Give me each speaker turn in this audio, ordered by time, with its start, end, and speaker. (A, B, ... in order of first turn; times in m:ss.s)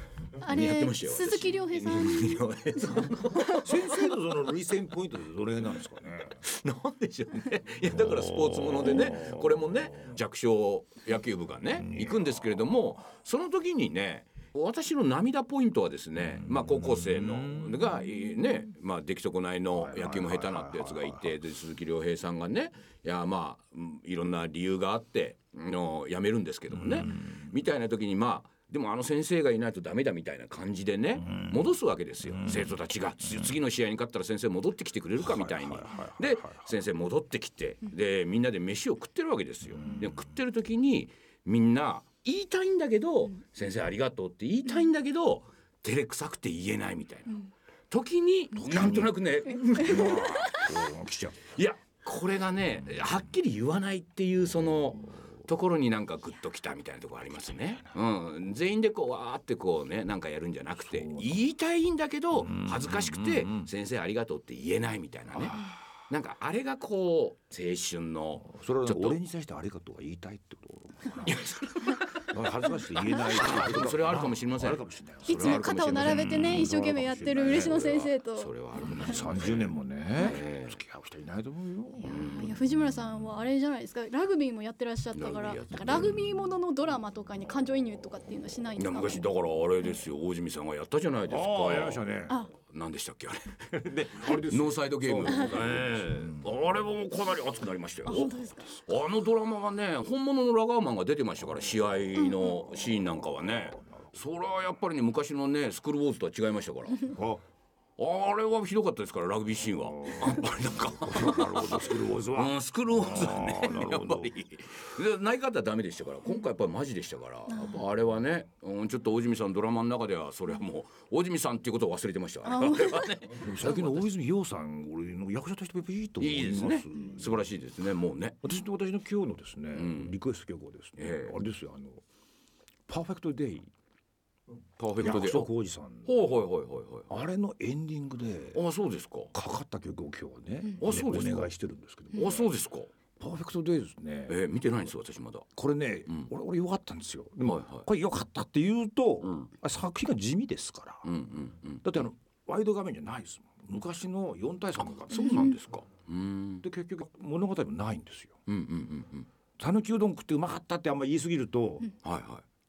0:00.4-0:04.1 A
0:00.4-0:03.7 B
0:03.5-0:06.4 C
0:06.3-0:50.8 A
0:07.8-0:10.2 C
0:11.7-0:12.6 C
0:16.2-0:18.2 C
0:19.7-0:21.4 C
0:26.7-0:27.5 C
0:31.2-0:32.8 C
0:35.2-0:36.7 C
0:39.8-0:40.1 C
0:48.6-0:49.2 C
0:49.7-0:51.5 C
0:51.5-1:09.2 A
0:57.2-0:58.0 C
1:00.9-1:01.4 C
1:02.3-1:03.7 C
1:05.3-1:05.8 C
1:08.4-1:11.5 C
1:11.2-1:16.7 A
1:12.2-1:17.8 C
1:15.2-1:19.1 B
1:17.5-1:20.8 A
1:18.8-1:22.2 C
1:22.0-1:22.6 A
1:22.0-1:29.2 B
1:25.1-1:26.4 A
1:28.8-1:32.1 A
1:31.3-1:32.4 C
1:32.7-1:47.2 A
1:33.7-1:36.8 C
1:38.0-1:38.8 B
1:42.8-1:44.1 C
1:47.1-1:47.4 C
1:48.0-2:04.1 A
1:49.7-1:54.4 C
1:57.5-1:57.8 B
2:02.4-2:03.2 B
2:03.3-2:07.5 C
2:06.2-2:08.4 A
2:08.4-2:12.0 C
2:09.7-2:10.1 A
2:11.0-2:11.4 A
2:12.9-2:13.7 C
2:14.8-2:15.5 A
2:15.0-2:16.2 C
2:16.0-2:17.2 A
2:17.1-2:18.6 C
2:18.5-2:19.3 A
2:19.3-2:22.5 C
2:20.8-2:21.5 A
2:22.1-2:22.9 A
2:23.2-2:24.4 C
2:24.3-2:25.4 A
2:25.6-2:31.1 C
2:27.4-2:27.8 A
2:29.2-2:29.5 A
2:31.0-2:31.8 A
2:31.8-2:35.6 C
2:34.8-2:36.6 A
2:35.1-2:35.6 B
2:36.6-2:38.4 C
2:38.5-2:39.3 A
2:39.6-2:41.9 C
2:42.0-2:42.4 A